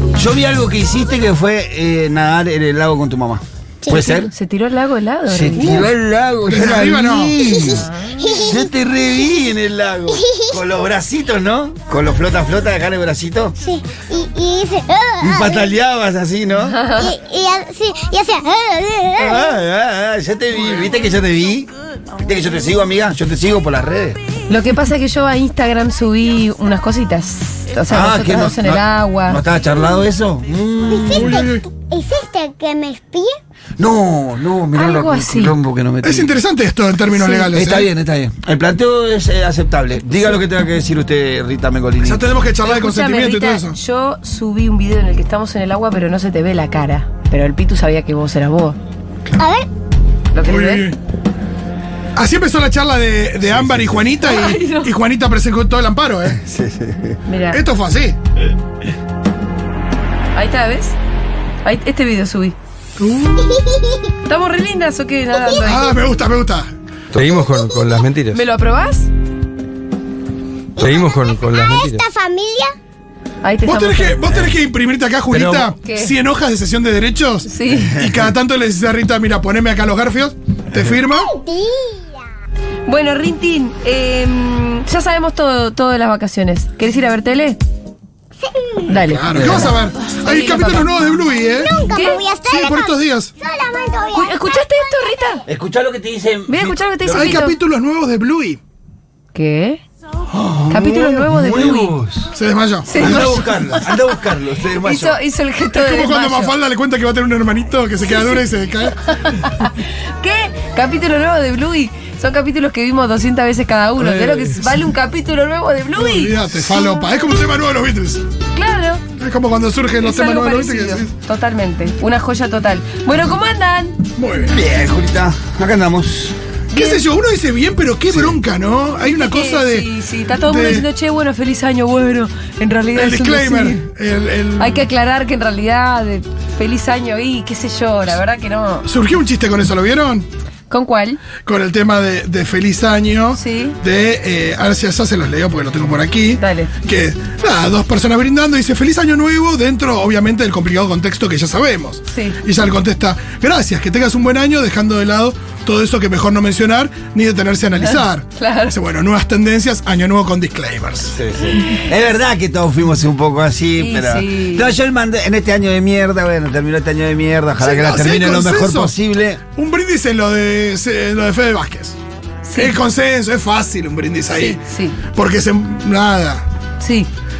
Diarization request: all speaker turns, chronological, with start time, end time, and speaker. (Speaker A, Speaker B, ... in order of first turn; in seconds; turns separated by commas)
Speaker A: 0.1-4.3, Speaker B: 3.9-5.9, Speaker A: 5.3-13.6, Speaker C: 6.5-7.3, Speaker D: 7.4-8.7, Speaker D: 10.1-10.6, Speaker D: 13.6-15.7, Speaker A: 15.2-16.8, Speaker B: 16.6-17.1, Speaker D: 17.0-19.5, Speaker A: 19.2-21.7, Speaker A: 22.2-24.2, Speaker B: 24.5-29.4, Speaker A: 27.9-31.5, Speaker D: 30.9-33.4, Speaker C: 31.1-31.6, Speaker A: 33.8-36.4, Speaker B: 34.7-35.5, Speaker C: 36.0-37.9, Speaker B: 37.1-37.5, Speaker A: 37.5-42.3, Speaker C: 42.0-43.8, Speaker B: 42.6-48.8, Speaker D: 49.4-49.7, Speaker B: 50.3-50.9, Speaker C: 50.4-51.0, Speaker C: 52.1-56.4, Speaker A: 53.5-54.0, Speaker B: 54.2-54.9, Speaker A: 56.4-57.2, Speaker B: 57.2-57.6, Speaker C: 57.5-58.2, Speaker B: 60.3-61.0, Speaker B: 61.6-62.5, Speaker C: 63.0-63.6, Speaker D: 63.4-64.1, Speaker B: 64.2-66.0, Speaker D: 65.3-65.7, Speaker C: 65.6-66.7, Speaker E: 67.2-68.3, Speaker D: 67.3-68.0, Speaker B: 68.3-69.1, Speaker D: 70.7-72.7, Speaker E: 70.8-72.0, Speaker B: 73.4-74.2, Speaker C: 73.6-81.3, Speaker A: 74.3-74.5, Speaker A: 75.3-75.7, Speaker B: 75.8-76.1, Speaker B: 77.5-78.0, Speaker A: 78.0-78.3, Speaker D: 81.2-82.1, Speaker B: 82.8-87.6, Speaker D: 88.4-88.9, Speaker B: 88.9-90.9, Speaker C: 89.0-91.7, Speaker A: 89.3-89.7, Speaker D: 91.5-95.3, Speaker B: 91.9-92.2, Speaker C: 92.5-93.3, Speaker B: 94.1-95.4, Speaker A: 95.5-97.4, Speaker B: 96.5-97.6, Speaker C: 97.1-98.6, Speaker B: 99.3-99.8, Speaker A: 100.3-102.3, Speaker B: 100.7-101.9, Speaker C: 102.3-103.6, Speaker B: 102.8-104.0, Speaker A: 102.9-105.2, Speaker B: 104.8-106.5, Speaker C: 105.7-109.0, Speaker B: 109.1-116.9, Speaker C: 114.0-114.7, Speaker C: 116.0-118.2, Speaker B: 118.5-119.0, Speaker C: 119.2-121.1, Speaker B: 120.0-124.0, Speaker C: 124.2-124.6, Speaker A: 124.4-126.3, Speaker C: 126.7-130.9, Speaker B: 126.7-127.0, Speaker A: 128.1-128.4, Speaker B: 129.1-133.8, Speaker C: 132.9-134.8, Speaker B: 134.6-138.9, Speaker C: 138.8-140.3, Speaker B: 140.7-141.2, Speaker C: 141.4-161.2, Speaker B: 143.3-143.8, Speaker B: 146.4-146.7, Speaker B: 152.1-152.4, Speaker B: 157.8-158.7, Speaker A: 161.1-169.4, Speaker B: 163.8-164.7, Speaker C: 167.6-168.9, Speaker C: 169.5-172.0, Speaker B: 172.4-172.8, Speaker C: 172.5-176.4, Speaker B: 174.3-175.0, Speaker B: 176.8-177.1